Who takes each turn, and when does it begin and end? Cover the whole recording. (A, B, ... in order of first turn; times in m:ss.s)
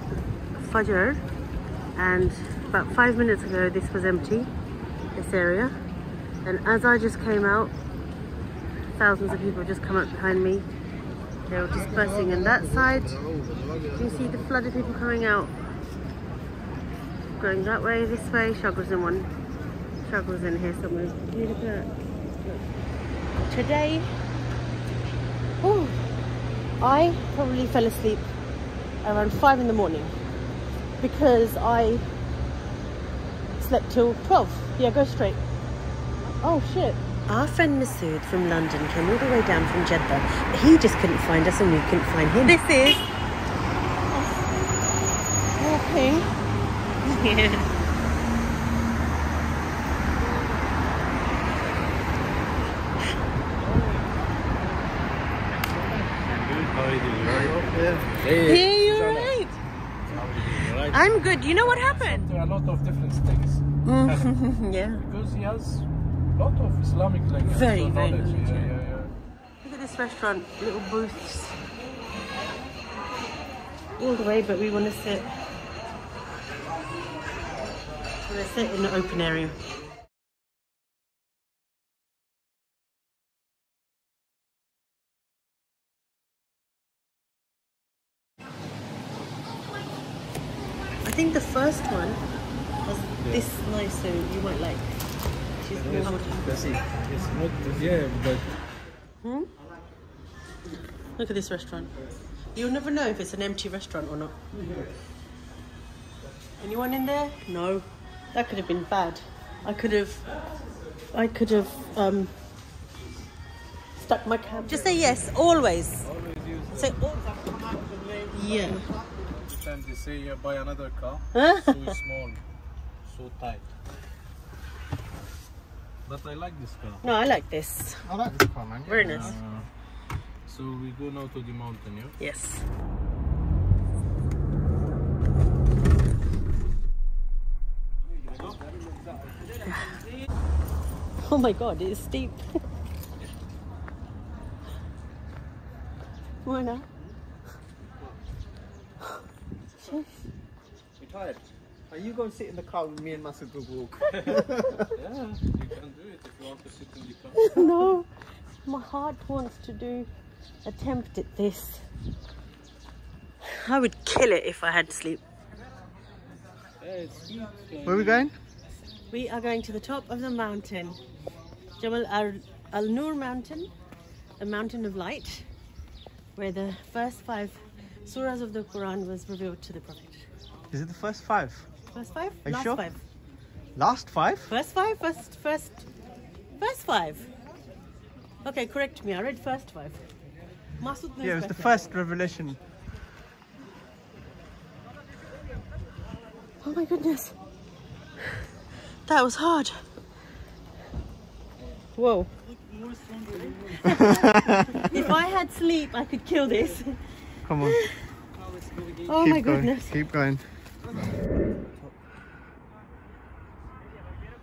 0:00.5-0:01.2 A
0:02.0-0:04.5 A
0:05.2-0:05.8 A
0:06.4-0:07.7 A
0:09.0-0:10.7 A
0:11.5-0:13.3 A
0:13.9-0:15.5 A
0:17.3-0:19.3 A
0:20.0-0:21.9 A
0:23.4-0:24.1 A
0:25.6-0:26.0 A
0:26.8-0:28.2 A
0:29.0-0:30.1 A
0:31.0-0:32.1 A
0:33.6-0:35.4 A
0:36.4-0:43.1 A
0:45.6-0:46.3 A
0:47.0-0:47.7 A
0:53.6-0:54.3 B
0:55.6-0:59.3 B
0:57.3-0:58.1 C
0:58.3-0:59.6 A
1:00.1-1:04.3 B
1:00.9-1:02.3 A
1:03.8-1:05.0 A
1:05.0-1:09.1 B
1:07.4-1:08.7 A
1:09.6-1:11.6 A
1:14.0-1:15.3 A
1:18.2-1:19.6 A
1:31.0-1:32.2 A
1:32.8-1:35.0 A
1:33.2-1:33.5 B
1:35.6-1:36.6 A
1:35.8-1:38.6 B
1:36.4-1:36.8 C
1:39.2-1:39.5 A
1:41.1-1:41.9 A
1:42.5-1:44.4 A
1:46.6-1:50.3 A
1:51.1-1:52.3 A
1:54.0-1:56.1 A
1:56.0-1:57.0 B
1:57.2-1:58.8 C
1:58.3-1:58.9 A
1:59.3-2:02.4 B
2:01.3-2:01.9 A
2:03.0-2:03.7 B
2:06.0-2:07.1 B
2:07.0-2:08.1 A
2:08.0-2:09.4 C
2:08.8-2:09.4 A
2:09.0-2:12.2 B
2:12.2-2:12.7 A
2:19.6-2:20.0 A
2:21.2-2:22.4 A
2:26.4-2:26.8 A
2:31.0-2:34.9 C
2:34.1-2:37.6 B
2:37.4-2:40.1 A
2:40.6-2:41.9 A
2:43.5-2:45.2 A
2:46.8-2:48.3 B
2:47.8-2:48.4 C
2:49.1-2:51.0 A
2:51.8-2:53.7 A
2:54.4-2:55.5 A
2:56.4-3:00.3 A
3:00.7-3:01.7 C
3:01.9-3:03.0 A
3:02.4-3:02.8 C
3:03.8-3:04.5 C
3:04.5-3:05.9 A
3:06.6-3:07.3 A
3:08.4-3:10.0 A
3:10.8-3:11.9 A
3:11.2-3:12.6 C
3:16.6-3:17.4 A
3:19.0-3:19.8 A
3:21.9-3:22.3 A
3:22.8-3:23.8 B
3:23.7-3:28.1 A
3:24.0-3:24.8 C
3:27.5-3:27.8 C
3:29.1-3:29.9 A
3:29.1-3:30.6 C
3:31.6-3:31.9 C